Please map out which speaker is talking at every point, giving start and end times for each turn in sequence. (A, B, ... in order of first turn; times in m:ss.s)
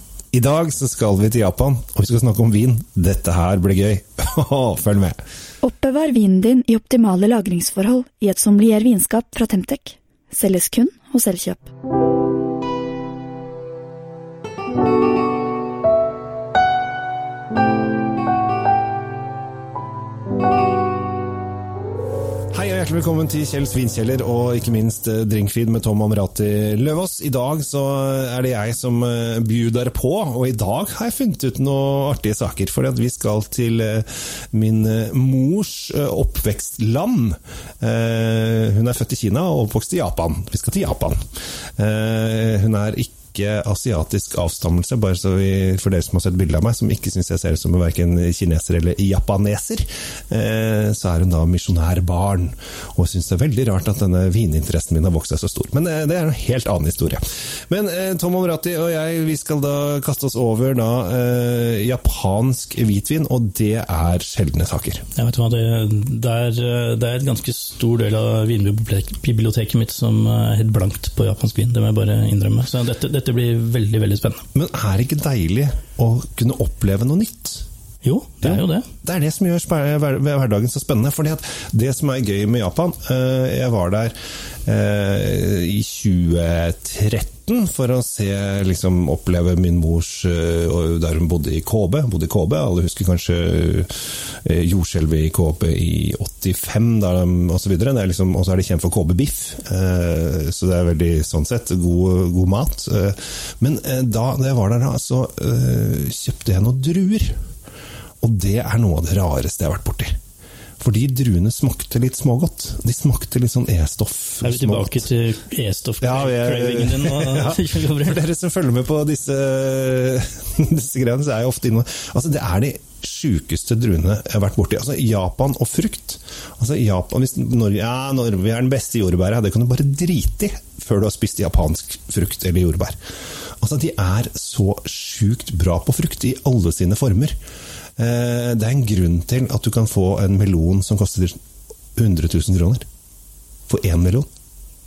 0:00.3-0:05.2 A
0:05.6-0:11.7 B
0:22.5-0:41.2 A
0:41.8-1:05.0 A
1:05.2-1:14.4 C
1:14.5-1:17.6 A
1:18.0-1:18.8 C
1:18.4-1:24.1 A
1:24.6-1:47.3 A
1:48.2-1:50.1 A
1:50.8-1:55.0 A
1:54.4-1:58.2 C
1:56.0-2:13.0 A
2:13.6-2:17.4 A
2:18.0-2:21.4 A
2:22.0-2:22.8 A
2:23.7-2:24.3 A